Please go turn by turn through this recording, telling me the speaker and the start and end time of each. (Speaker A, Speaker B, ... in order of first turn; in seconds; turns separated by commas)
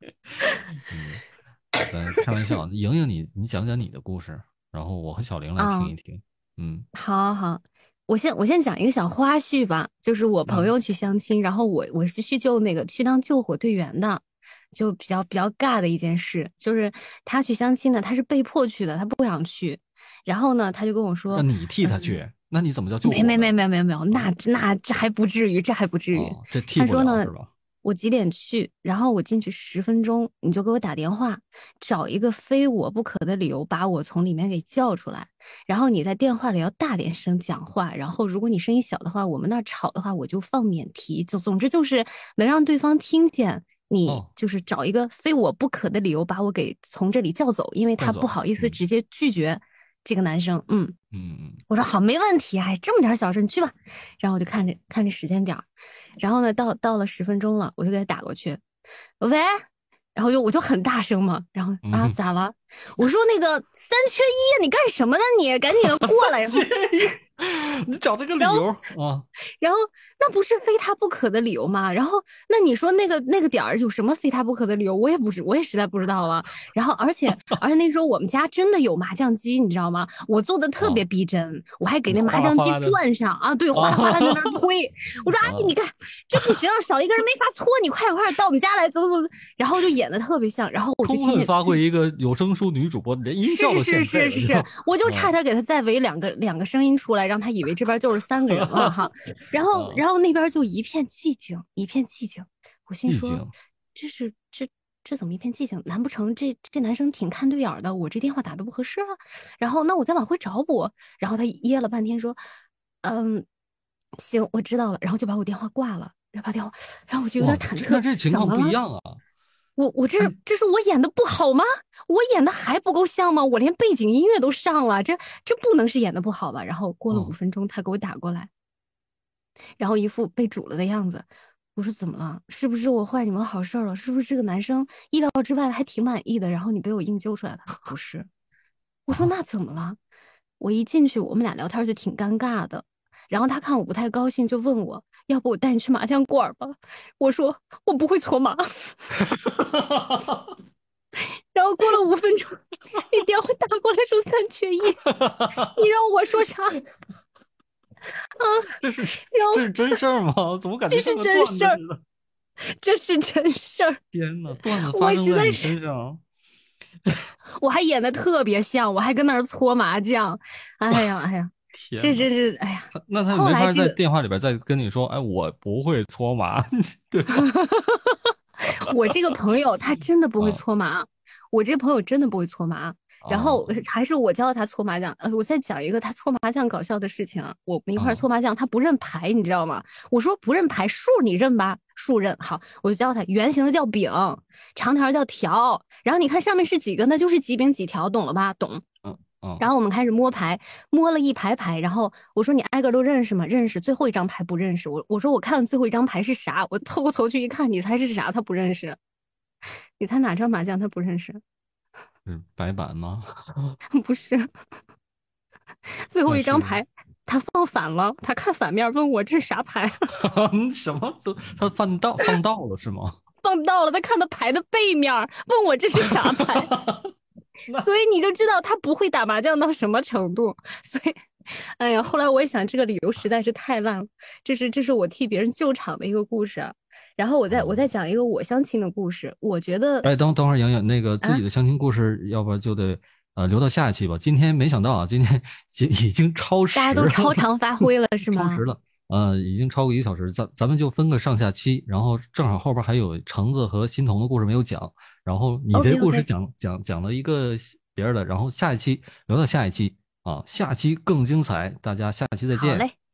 Speaker A: 0.9-1.2, Speaker A: 1.9-6.9, Speaker B: 5.6-5.9, Speaker B: 6.9-22.1, Speaker A: 10.5-10.7, Speaker A: 21.3-23.5, Speaker B: 23.0-27.3, Speaker A: 24.1-24.3, Speaker A: 26.1-27.5, Speaker B: 27.8-50.9, Speaker A: 48.0-48.8, Speaker A: 51.1-51.6, Speaker B: 51.7-55.6, Speaker B: 56.2-58.6, Speaker B: 59.2-59.6, Speaker B: 60.1-66.7, Speaker A: 61.8-62.2, Speaker A: 65.8-69.2, Speaker B: 68.4-68.7, Speaker B: 69.6-91.8, Speaker A: 80.8-81.0, Speaker A: 82.1-83.0, Speaker A: 83.7-84.6, Speaker A: 85.4-85.7, Speaker A: 91.0-95.3, Speaker B: 93.4-103.4, Speaker A: 98.5-99.1, Speaker A: 99.7-100.0, Speaker A: 103.1-103.5, Speaker B: 103.9-112.4, Speaker B: 113.0-113.5, Speaker B: 114.2-118.7, Speaker A: 117.4-119.2, Speaker B: 119.8-128.5, Speaker B: 129.8-138.3, Speaker B: 139.1-140.0, Speaker B: 140.6-148.9, Speaker A: 149.4-150.4, Speaker B: 151.2-155.0, Speaker A: 155.1-155.7, Speaker B: 155.7-156.8, Speaker B: 158.4-159.6, Speaker A: 158.8-162.0, Speaker B: 160.9-161.8, Speaker B: 162.6-164.0, Speaker A: 164.1-166.2, Speaker B: 164.6-165.7, Speaker B: 167.6-174.0, Speaker A: 171.7-172.3, Speaker A: 172.9-177.5, Speaker B: 177.4-198.8, Speaker A: 183.2-183.8, Speaker A: 187.9-188.2, Speaker A: 199.0-199.7, Speaker B: 199.6-209.0, Speaker B: 210.0-211.4, Speaker A: 212.2-213.8, Speaker B: 213.9-214.5, Speaker B: 215.9-220.1, Speaker A: 216.3-216.8, Speaker A: 220.2-223.2, Speaker B: 223.4-226.7, Speaker A: 226.0-227.1, Speaker B: 227.8-240.1, Speaker A: 237.5-237.8, Speaker A: 240.0-262.9, Speaker B: 246.7-248.6, Speaker B: 255.7-256.3, Speaker B: 262.5-262.9